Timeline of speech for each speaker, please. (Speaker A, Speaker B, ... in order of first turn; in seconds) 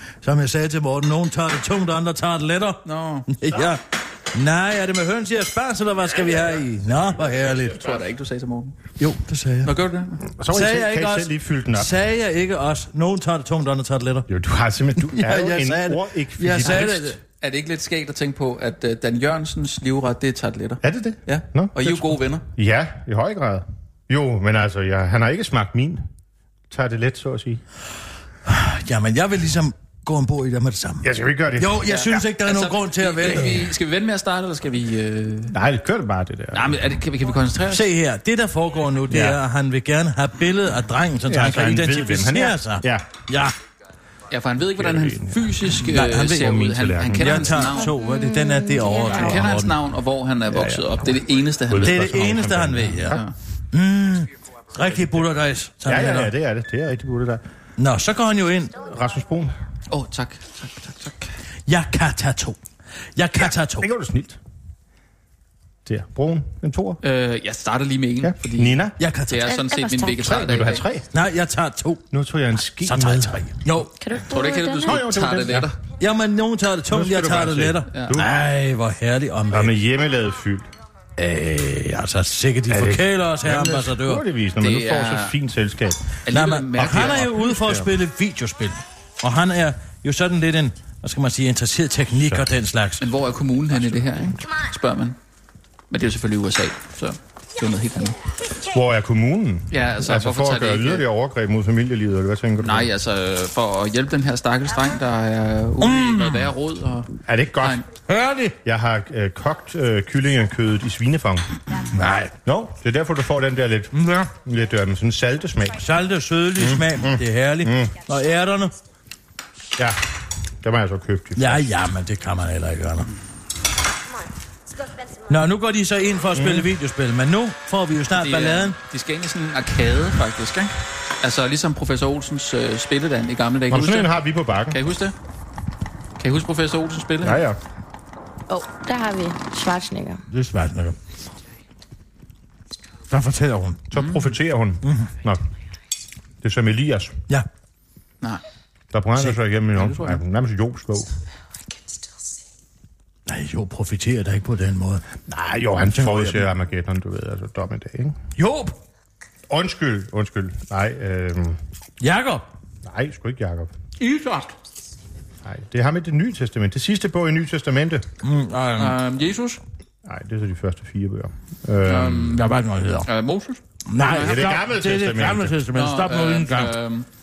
Speaker A: 0.2-7.8, 9.0-9.8, 10.5-14.3, 15.0-17.2, 28.4-33.7, 37.7-43.5, 45.8-46.5, 47.1-49.8, 51.8-53.2, 53.7-56.3, 57.8-58.8, 61.7-62.6, 63.2-63.9, 69.0-69.5, 71.1-72.0, 72.8-73.9, 76.0-79.8, 81.2-84.2, 86.3-93.1, 105.8-106.5, 108.1-108.6, 111.9-112.3, 113.9-114.3, 115.8-118.7, 121.4-123.1, 125.3-128.8, 140.3-141.0, 143.1-143.8, 144.8-145.1, 153.3-155.1, 155.9-156.5, 158.4-158.8, 162.0-162.4, 168.2-169.0, 172.1-173.1, 173.9-176.7
Speaker B: 2.9-3.3, 7.7-8.9, 9.6-10.2, 16.6-22.5, 31.9-35.5, 36.5-37.9, 44.3-48.0, 49.1-52.0, 59.9-61.3, 67.0-70.8, 74.2-75.8, 77.9-78.2, 84.6-85.3, 86.3-87.3, 93.0-95.2, 95.9-98.2, 99.7-101.0, 102.6-107.9, 128.2-134.2, 134.7-135.2, 136.2-137.4, 143.9-144.3, 149.8-150.2, 164.0-164.5, 168.8-169.6, 171.9-172.4, 173.1-174.5, 175.7-177.1
Speaker C: 10.3-12.0, 14.3-17.2, 20.8-26.1, 26.7-27.6, 31.0-32.0, 35.5-36.8, 39.1-39.4, 41.3-43.1, 44.6-47.7, 50.5-51.0, 51.7-53.2, 55.9-57.4, 58.8-59.6, 63.4-64.4, 65.8-67.0, 68.2-69.0, 70.2-71.1, 72.1-73.7, 74.8-75.7, 76.9-78.3, 79.5-80.7, 82.7-86.2, 86.8-87.9, 98.6-102.9, 107.3-107.8, 108.6-111.5, 112.4-115.8, 116.6-117.9, 120.6-121.7, 126.3-126.7, 133.7-134.8, 137.2-137.6, 143.9-145.4, 146.4-147.2, 148.9-151.1, 155.3-158.2, 159.5-161.6, 162.8-163.7, 165.4-168.1, 170.1-172.4, 174.1-175.6
Speaker D: 47.8-49.4, 69.4-70.4, 74.0-75.1, 138.5-140.2